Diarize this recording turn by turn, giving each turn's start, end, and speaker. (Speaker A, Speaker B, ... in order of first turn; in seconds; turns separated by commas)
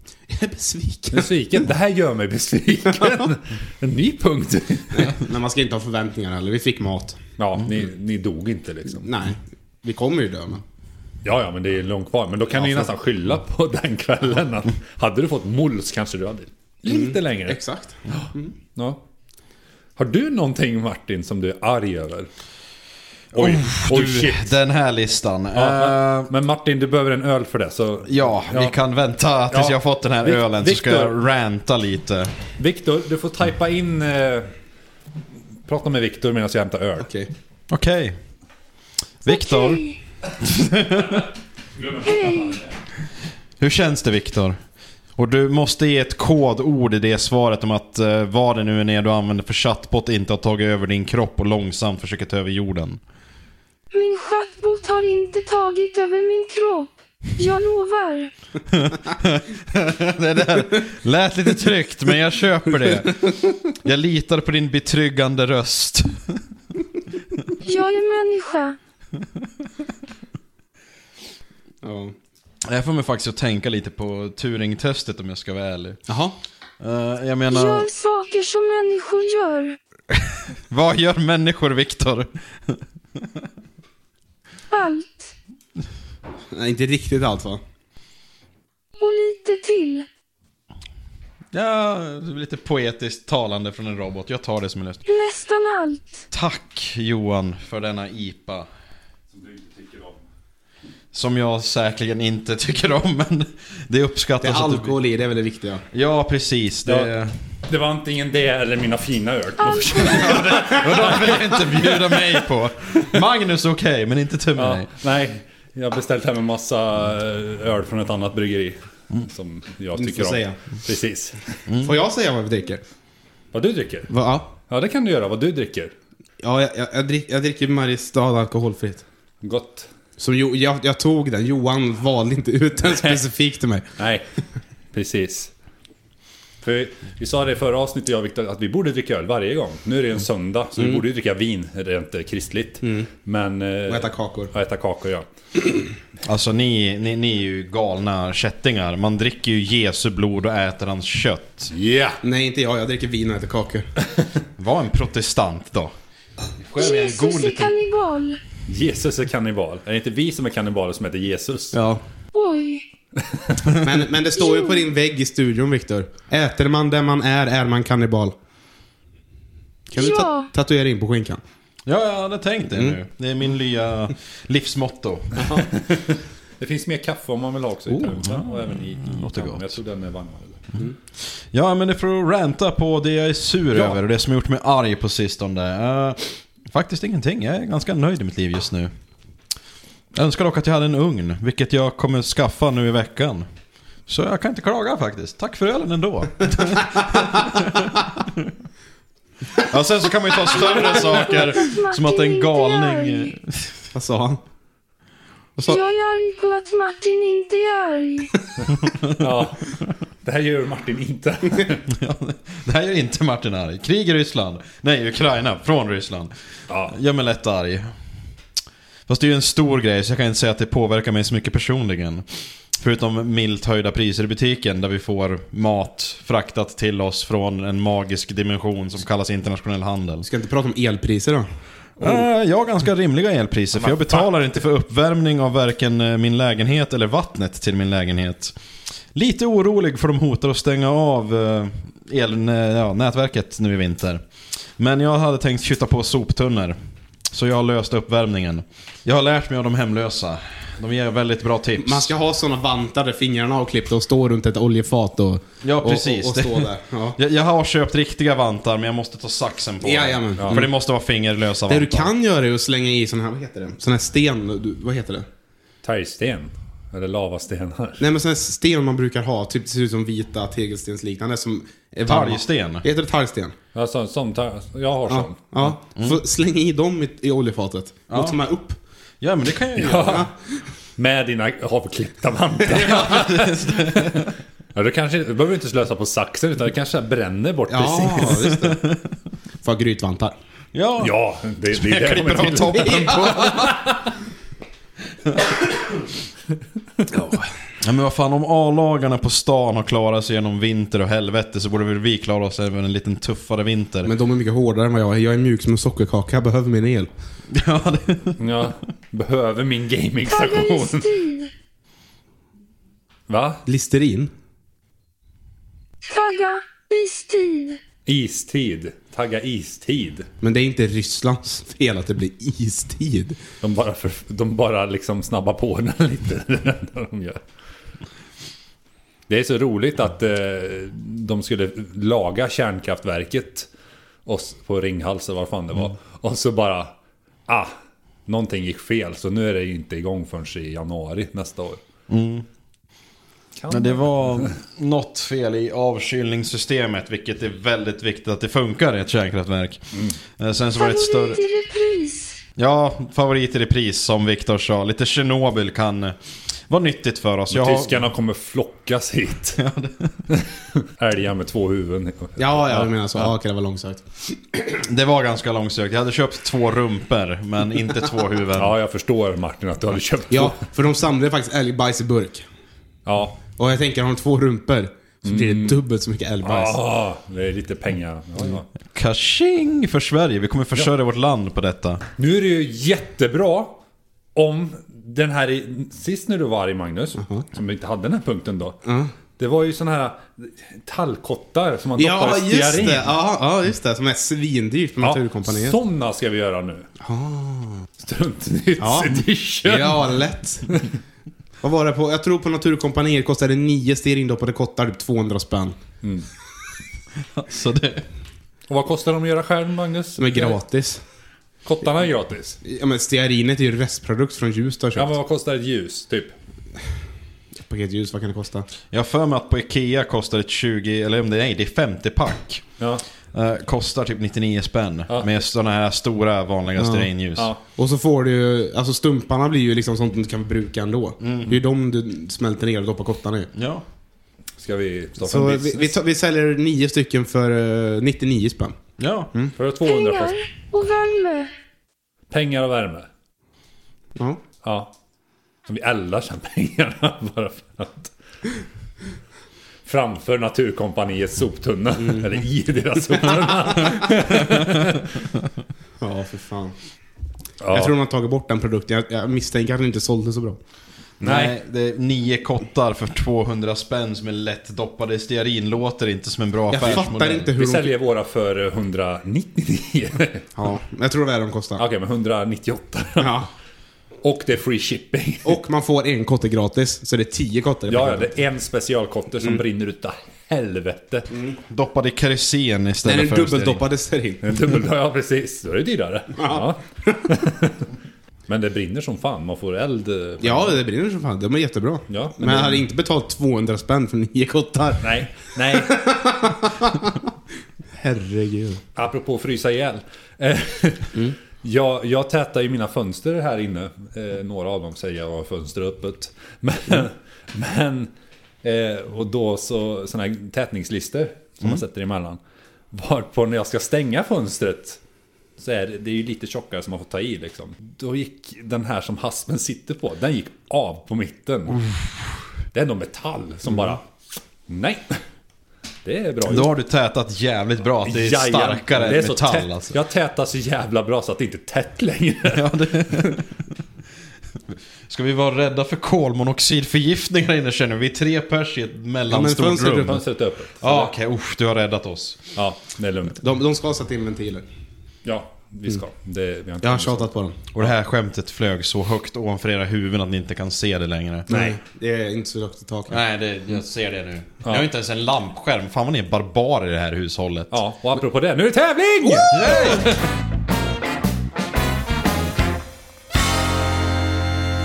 Speaker A: 0.3-1.3, Speaker B: 1.1-5.2, Speaker A: 4.9-7.2, Speaker B: 7.4-9.1, Speaker A: 9.0-10.6, Speaker B: 11.2-17.6, Speaker A: 16.9-18.5, Speaker B: 18.1-19.0, Speaker B: 20.0-22.3, Speaker C: 23.3-26.3, Speaker B: 23.3-24.5, Speaker B: 25.6-28.8, Speaker C: 28.1-32.4, Speaker B: 29.5-31.1, Speaker B: 32.6-34.5, Speaker B: 35.7-37.1, Speaker A: 37.0-37.3, Speaker C: 37.7-38.2, Speaker C: 39.2-39.8, Speaker D: 39.3-40.0, Speaker C: 40.4-41.2, Speaker B: 41.8-42.7, Speaker D: 42.0-42.6, Speaker C: 43.6-44.6, Speaker C: 45.2-53.0, Speaker D: 53.9-58.3, Speaker C: 58.7-66.4, Speaker D: 67.6-68.8, Speaker A: 71.8-72.1, Speaker C: 72.7-76.0, Speaker A: 76.1-76.3, Speaker C: 76.8-77.9, Speaker D: 77.5-79.8, Speaker C: 80.7-83.5, Speaker D: 84.7-85.3, Speaker A: 86.5-87.6, Speaker D: 89.0-90.1, Speaker C: 91.5-95.0, Speaker D: 95.1-96.2, Speaker C: 96.3-98.7, Speaker B: 99.3-100.2, Speaker C: 101.1-105.0, Speaker A: 104.4-105.8, Speaker C: 105.9-107.4, Speaker B: 106.9-107.1, Speaker B: 107.7-112.2, Speaker D: 109.6-110.2, Speaker C: 109.9-114.9, Speaker B: 114.6-121.6, Speaker A: 120.0-120.6, Speaker A: 121.8-122.8, Speaker B: 123.5-124.1, Speaker A: 124.1-124.5, Speaker B: 124.7-125.9, Speaker A: 126.4-129.0, Speaker B: 129.4-129.9, Speaker A: 130.2-133.9, Speaker B: 132.9-133.2, Speaker B: 134.0-134.2, Speaker B: 134.9-135.5, Speaker B: 136.6-145.3, Speaker A: 140.8-141.0, Speaker A: 142.8-143.1, Speaker A: 143.9-144.5, Speaker C: 146.2-151.7, Speaker B: 151.7-152.2, Speaker A: 152.2-153.9, Speaker C: 154.6-155.9, Speaker C: 156.6-157.8, Speaker D: 156.8-158.4, Speaker B: 158.7-161.8, Speaker C: 161.7-162.0, Speaker D: 162.3-162.8, Speaker A: 163.8-168.3, Speaker D: 164.4-164.8, Speaker A: 169.9-171.4, Speaker D: 170.0-170.5, Speaker C: 171.9-175.5, Speaker A: 175.4-175.7, Speaker B: 175.6-180.6, Speaker C: 178.2-179.8, Speaker C: 181.5-188.9, Speaker C: 190.1-193.5, Speaker C: 194.1-198.5, Speaker C: 199.7-203.7, Speaker D: 200.5-203.3, Speaker A: 203.9-204.4, Speaker D: 205.6-208.4, Speaker B: 209.2-211.9, Speaker C: 211.9-216.3, Speaker B: 216.7-217.0, Speaker C: 216.9-217.9, Speaker C: 219.1-222.2, Speaker C: 222.8-230.3, Speaker A: 230.2-231.5, Speaker C: 232.0-238.5, Speaker C: 239.1-244.2, Speaker C: 244.8-246.8, Speaker C: 247.3-252.1, Speaker A: 251.8-257.2, Speaker C: 255.6-262.1, Speaker A: 259.8-260.7, Speaker A: 261.7-265.3, Speaker B: 265.8-268.0, Speaker A: 268.0-273.6, Speaker C: 272.1-272.9, Speaker B: 273.7-275.4, Speaker A: 275.1-278.8, Speaker C: 278.1-278.4, Speaker C: 279.2-280.3, Speaker B: 279.8-280.3, Speaker B: 281.0-288.8, Speaker C: 282.7-284.3, Speaker A: 287.7-288.8, Speaker C: 288.7-289.0, Speaker A: 289.6-290.4, Speaker C: 290.7-291.2, Speaker B: 291.0-294.1, Speaker C: 291.7-293.8, Speaker A: 293.1-293.5, Speaker C: 297.8-304.1, Speaker A: 304.1-307.1, Speaker C: 307.5-308.4, Speaker B: 308.4-311.1, Speaker D: 310.3-311.5, Speaker B: 313.3-313.6, Speaker A: 313.7-314.3, Speaker D: 316.1-317.8, Speaker B: 318.1-320.3, Speaker A: 320.4-323.4, Speaker B: 323.6-327.4, Speaker B: 329.3-333.7, Speaker B: 334.3-336.9, Speaker B: 337.5-337.7, Speaker B: 338.3-341.8, Speaker C: 342.1-342.5, Speaker B: 343.6-344.5, Speaker C: 343.7-351.4, Speaker B: 349.9-350.2, Speaker D: 350.8-352.4, Speaker C: 352.6-356.2, Speaker C: 356.7-358.0, Speaker B: 357.5-359.6, Speaker C: 359.6-360.1, Speaker B: 360.3-363.3, Speaker A: 362.4-364.6, Speaker C: 364.8-368.8, Speaker B: 368.6-370.6, Speaker A: 370.3-372.4, Speaker B: 373.1-373.4, Speaker A: 373.6-376.8, Speaker B: 375.2-375.8, Speaker B: 376.4-378.7, Speaker C: 378.9-382.0, Speaker B: 382.2-383.8, Speaker B: 384.4-388.8, Speaker A: 388.9-389.1, Speaker B: 389.4-393.1, Speaker A: 392.0-395.8, Speaker B: 395.0-396.9, Speaker A: 397.0-397.9, Speaker B: 398.0-400.1, Speaker A: 398.8-400.7, Speaker A: 401.6-405.8, Speaker C: 407.3-408.1, Speaker B: 408.7-410.6, Speaker A: 410.2-411.0, Speaker B: 411.6-412.6, Speaker A: 412.6-415.1, Speaker B: 414.9-416.3, Speaker A: 417.7-418.7, Speaker C: 418.9-422.6, Speaker C: 423.3-427.5, Speaker A: 426.8-427.1, Speaker A: 427.8-433.5, Speaker C: 431.2-431.6, Speaker C: 433.6-433.8, Speaker B: 434.6-435.9, Speaker A: 435.2-438.8, Speaker C: 439.0-439.3, Speaker B: 439.6-440.4, Speaker D: 439.8-441.5, Speaker B: 442.3-443.1, Speaker B: 444.6-444.9, Speaker B: 445.7-448.1, Speaker B: 449.9-455.2, Speaker A: 456.0-456.8, Speaker B: 457.6-457.9, Speaker A: 457.7-460.6, Speaker C: 461.2-467.5, Speaker B: 461.2-461.6, Speaker A: 466.7-467.9, Speaker B: 467.6-470.5, Speaker A: 470.6-471.8, Speaker B: 471.8-473.4, Speaker A: 473.2-473.5, Speaker B: 474.2-475.6, Speaker A: 475.4-478.3, Speaker B: 477.9-481.3, Speaker A: 481.3-481.6, Speaker C: 481.7-483.8, Speaker A: 483.0-484.6, Speaker B: 484.4-487.8, Speaker A: 486.4-487.2, Speaker B: 488.5-490.8, Speaker A: 490.4-497.2, Speaker B: 492.1-492.9, Speaker B: 495.0-496.0, Speaker A: 498.0-498.8, Speaker B: 499.0-508.1, Speaker B: 508.6-512.4, Speaker B: 512.9-515.0, Speaker B: 515.6-521.9, Speaker B: 522.7-524.0, Speaker B: 524.7-525.2, Speaker B: 526.0-526.7, Speaker C: 526.5-530.0, Speaker B: 528.0-533.4, Speaker C: 532.5-533.6, Speaker C: 534.7-540.2, Speaker A: 539.3-540.2, Speaker B: 539.8-541.1, Speaker C: 540.8-542.5, Speaker B: 542.6-543.4, Speaker A: 543.4-544.7, Speaker B: 545.2-547.9, Speaker A: 546.8-547.6, Speaker C: 547.7-551.5, Speaker A: 551.5-553.2, Speaker B: 551.5-551.8, Speaker C: 553.1-557.8, Speaker B: 557.7-560.2, Speaker C: 559.5-560.2